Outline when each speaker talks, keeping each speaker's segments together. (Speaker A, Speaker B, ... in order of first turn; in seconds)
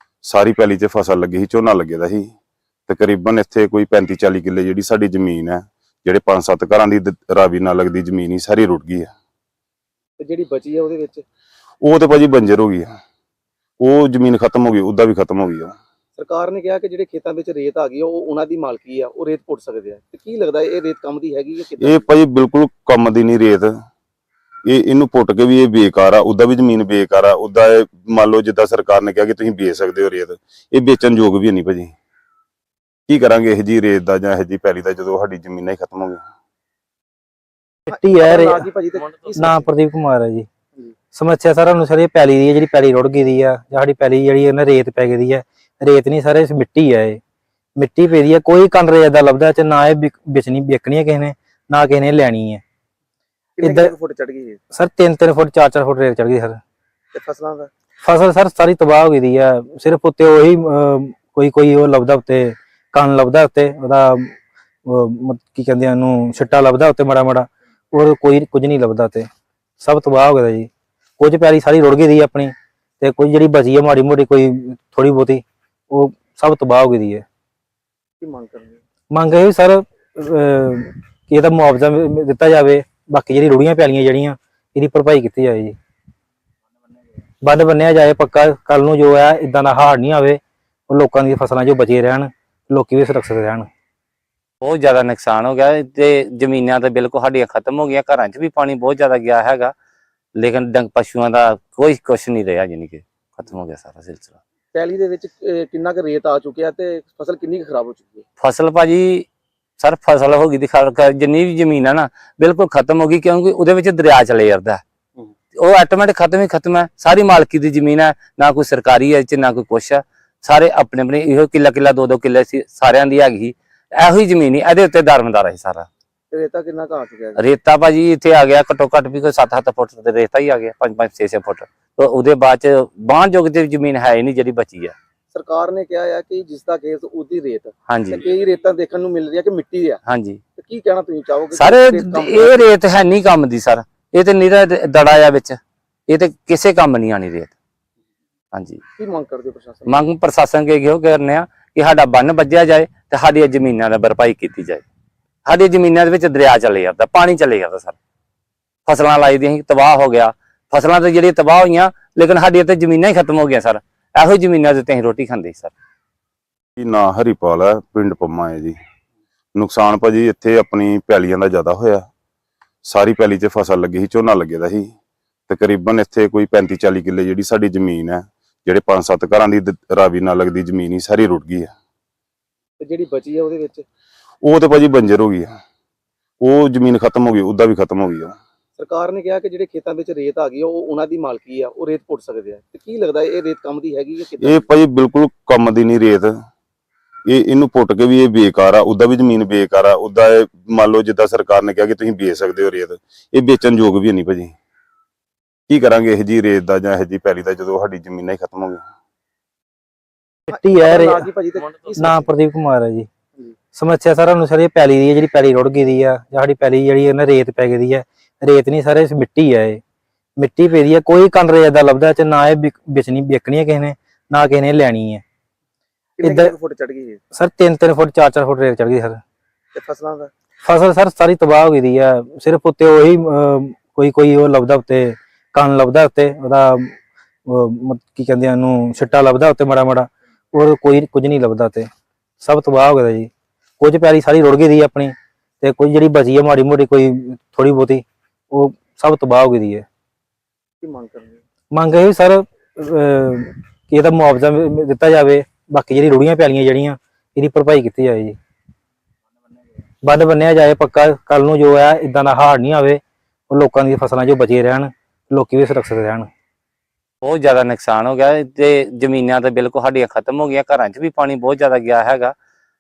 Speaker A: 0.3-2.3, 2.9-9.1, 11.8-12.9, 13.8-15.7, 21.8-23.7, 24.7-31.9, 33.1-36.2, 166.8-168.7, 169.6-172.0, 172.9-174.9, 175.5-181.7, 184.4-185.5, 186.4-188.3, 194.4-196.3, 197.3-204.5, 205.7-208.8
Speaker B: 10.2-11.2, 16.2-22.1, 38.2-39.6, 53.6-54.6, 57.1-57.7, 78.2-78.8, 104.7-108.2, 126.3-127.4, 135.3-140.0, 140.6-142.5, 149.0-150.0, 182.8-183.8, 188.8-194.7, 210.8-212.3, 226.2-227.2, 229.7-230.3, 250.8-251.4
Speaker C: 37.9-38.6, 39.3-40.5, 41.1-47.2, 47.8-52.6, 53.6-53.9, 54.7-56.6, 58.0-64.3, 64.8-69.3, 69.8-77.2, 79.1-85.7, 87.4-93.7, 210.5-211.3, 212.0-213.1, 213.7-219.8, 220.4-225.2, 226.2-226.5, 227.3-229.2, 230.6-236.9, 237.5-241.9, 242.4-249.8, 251.7-258.4, 260.0-266.3
Speaker D: 94.6-99.7, 100.3-104.3, 108.4-109.2, 109.8-114.8, 115.5-125.9, 127.4-134.9, 137.9-138.2, 140.1-140.4, 141.5-147.5, 148.5-148.8, 149.8-154.8, 155.4-157.9, 158.8-165.7, 267.2-272.3